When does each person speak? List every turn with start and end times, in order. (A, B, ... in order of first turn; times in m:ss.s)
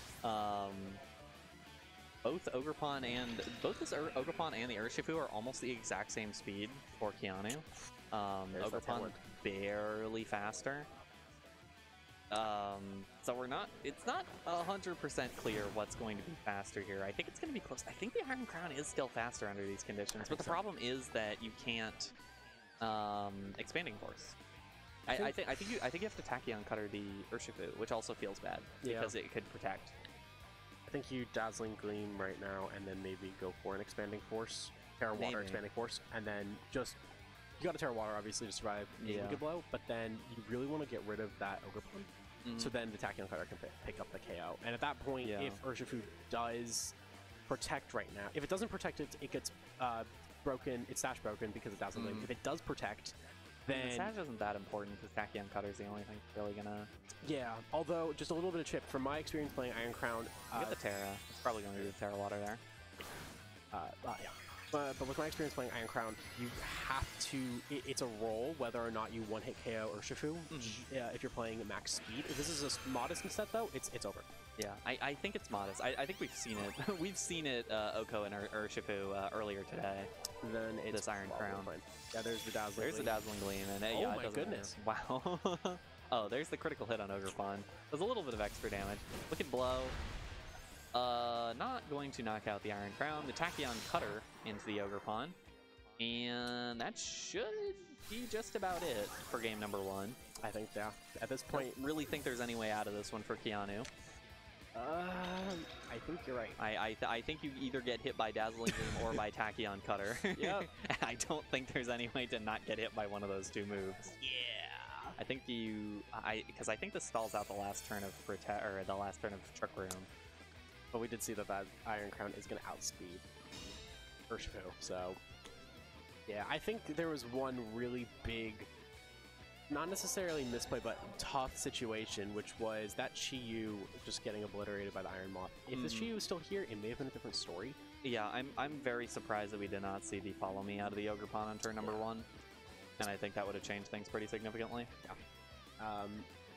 0:00.2-0:01.0 A
0:02.2-0:10.9 A
0:08.5-0:09.2 B
0:12.3-0:22.1 A
0:20.2-0:20.6 B
0:22.8-0:24.4 A
0:25.1-0:29.9 A
0:25.1-0:25.4 B
0:28.8-0:29.1 B
0:30.9-0:37.0 B
0:35.1-0:35.6 A
0:37.6-0:47.0 B
0:39.0-0:39.4 A
0:42.4-0:42.7 A
0:45.2-0:45.6 A
0:47.5-0:54.1 B
0:51.9-0:52.3 A
0:53.7-0:56.9 A
0:57.2-1:00.8 B
1:00.5-1:02.6 A
1:03.7-1:14.3 B
1:10.5-1:10.9 A
1:14.6-1:20.1 A
1:20.4-1:23.2 B
1:20.9-1:21.7 A
1:22.8-1:30.0 A
1:23.9-1:24.7 B
1:30.9-1:35.4 A
1:36.0-1:40.2 A
1:40.4-1:41.9 B
1:41.5-1:43.9 A
1:44.7-1:46.6 B
1:46.6-1:54.1 A
1:48.7-1:49.2 B
1:50.3-1:50.7 B
1:54.2-1:55.1 B
1:55.2-2:00.1 A
2:00.9-2:03.2 B
2:04.3-2:05.2 B
2:06.2-2:08.7 B
2:09.7-2:17.8 B
2:15.7-2:16.2 A
2:18.0-2:22.3 A
2:23.0-2:24.9 A
2:25.8-2:26.3 B